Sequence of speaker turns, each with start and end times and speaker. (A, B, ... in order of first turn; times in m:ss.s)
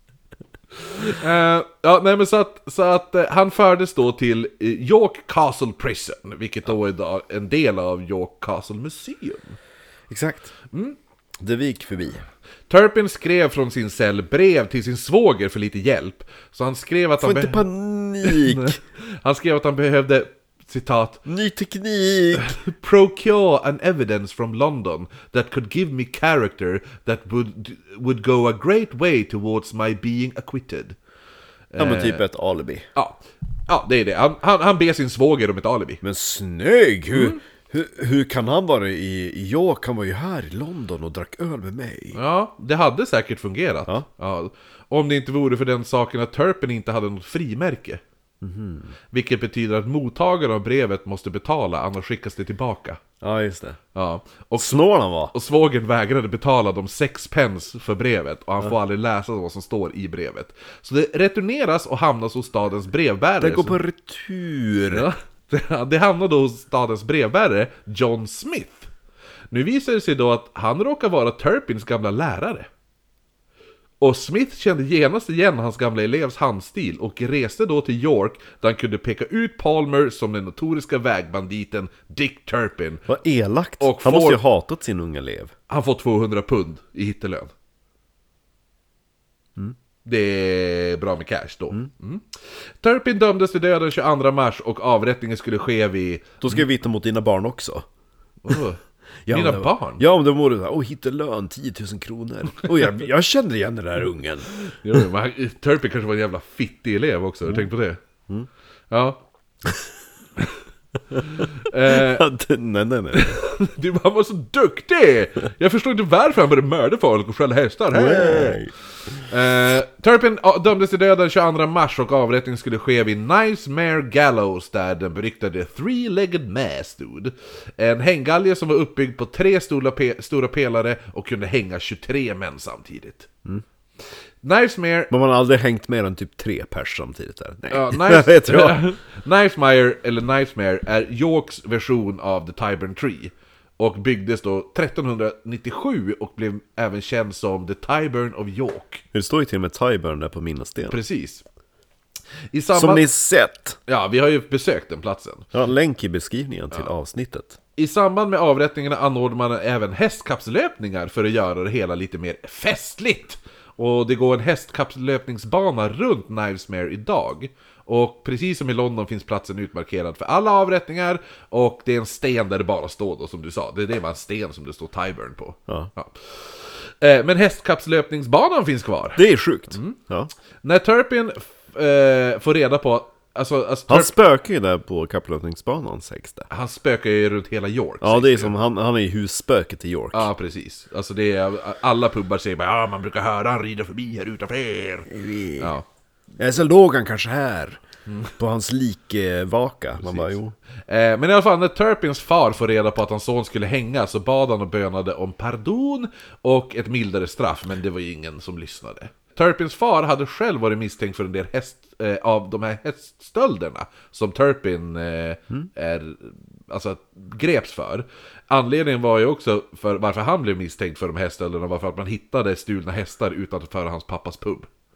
0:00.9-0:09.6 A
0:10.1-0:10.5 B
0:10.7-0:11.0 A
0:11.4-0:12.2 B
0:12.7-0:17.6 A
0:17.2-0:18.8 B
0:18.2-0:21.2 A
0:21.2-0:22.5 B
0:22.3-0:31.0 A
0:31.7-0:32.2 A
0:31.8-0:32.8 B
0:32.9-0:36.0 A
0:36.0-0:42.2 B
0:37.1-0:37.4 A
0:42.1-0:48.0 A
0:48.4-0:48.9 B
0:49.1-0:53.0 A
0:53.2-0:53.8 B
0:53.9-1:03.8 A
0:54.6-0:55.3 B
1:03.4-1:05.1 B
1:04.9-1:08.9 A
1:09.5-1:12.7 A
1:14.0-1:23.0 A
1:23.1-1:25.5 B
1:23.8-1:24.4 A
1:25.7-1:27.5 A
1:30.0-1:36.6 A
1:36.4-1:37.8 B
1:38.4-1:40.0 A
1:39.2-1:44.5 B
1:44.6-1:48.0 A
1:48.9-1:49.2 A
1:51.1-1:53.4 B
1:51.3-1:52.3 A
1:53.1-1:58.6 A
1:57.9-1:58.7 B
1:59.2-2:13.3 A
2:14.4-2:15.1 A
2:15.1-2:18.9 B
2:17.7-2:29.0 A
2:29.1-2:31.0 B
2:30.9-2:31.4 A
2:32.5-2:33.1 A
2:32.7-2:33.8 B
2:33.9-2:35.4 A
2:35.5-2:37.6 B
2:37.8-3:00.0 A
2:59.2-3:00.3 B
3:00.6-3:04.1 A
3:03.9-3:06.5 B
3:06.5-3:08.5 A
3:08.0-3:10.3 B
3:10.1-3:15.8 A
3:15.1-3:15.7 B
3:16.4-3:17.8 B
3:18.1-3:18.3 A
3:18.4-3:20.5 B
3:20.0-3:44.7 A